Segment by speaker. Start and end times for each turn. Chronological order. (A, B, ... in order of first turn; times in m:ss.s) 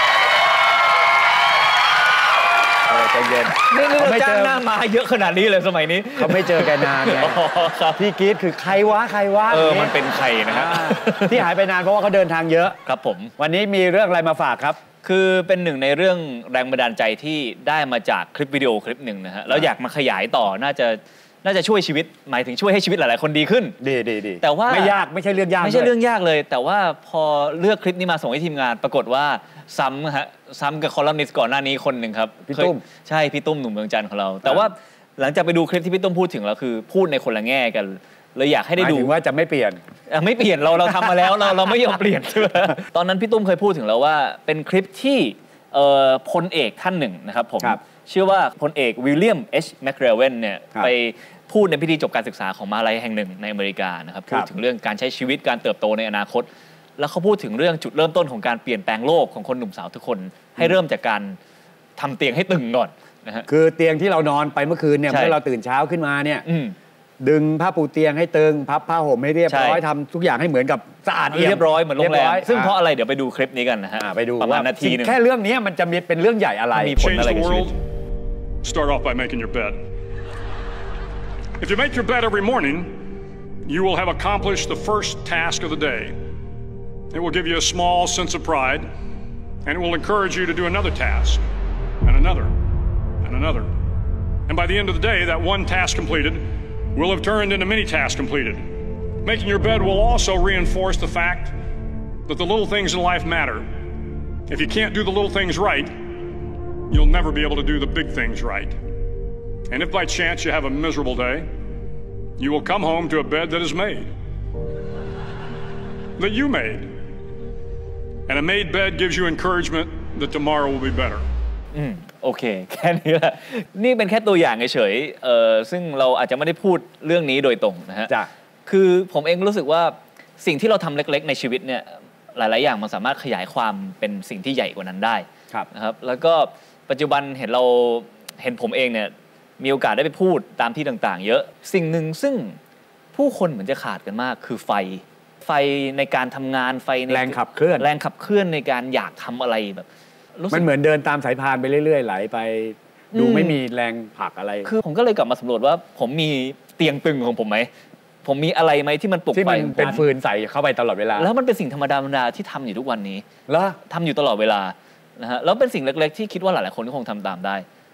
0:02.9-0:04.6 A
0:03.6-0:08.0 B
0:06.2-0:07.4 A
0:08.0-0:12.8 A
0:09.5-0:11.5 B
0:12.8-0:13.3 B
0:13.4-0:14.8 A
0:15.0-0:23.8 B
0:23.8-0:25.9 A
0:24.4-0:25.0 B
0:25.6-0:39.1 B
0:32.5-0:32.8 A
0:38.8-0:39.8 A
0:40.1-1:01.4 B
1:02.0-1:03.5 B
1:03.5-1:06.4 A
1:05.1-1:05.4 B
1:06.4-1:06.7 B
1:07.2-1:12.8 A
1:09.5-1:09.8 B
1:11.3-1:15.1 B
1:14.0-1:17.1 A
1:16.7-1:17.7 B
1:17.0-1:17.8 C
1:18.6-1:19.8 C
1:21.6-1:22.9 C
1:23.6-1:26.1 C
1:27.1-1:28.9 C
1:29.6-1:31.4 C
1:32.0-1:32.5 C
1:33.2-1:33.7 C
1:34.5-1:41.5 C
1:42.3-1:43.7 C
1:44.5-1:45.9 C
1:46.9-1:48.8 C
1:49.7-1:51.5 C
1:52.4-1:54.1 C
1:56.2-1:56.9 C
1:58.3-2:01.2 C
2:01.7-2:08.1 B
2:08.6-2:22.6 B
2:23.1-2:30.7 B
2:27.1-2:27.9 A
2:30.5-2:34.7 A
2:33.1-2:33.6 B
2:34.6-2:37.7 B
2:38.2-2:40.0 B
2:39.3-2:41.3 A
2:41.2-2:43.2 B
2:43.5-2:43.8 A
2:43.9-2:47.6 B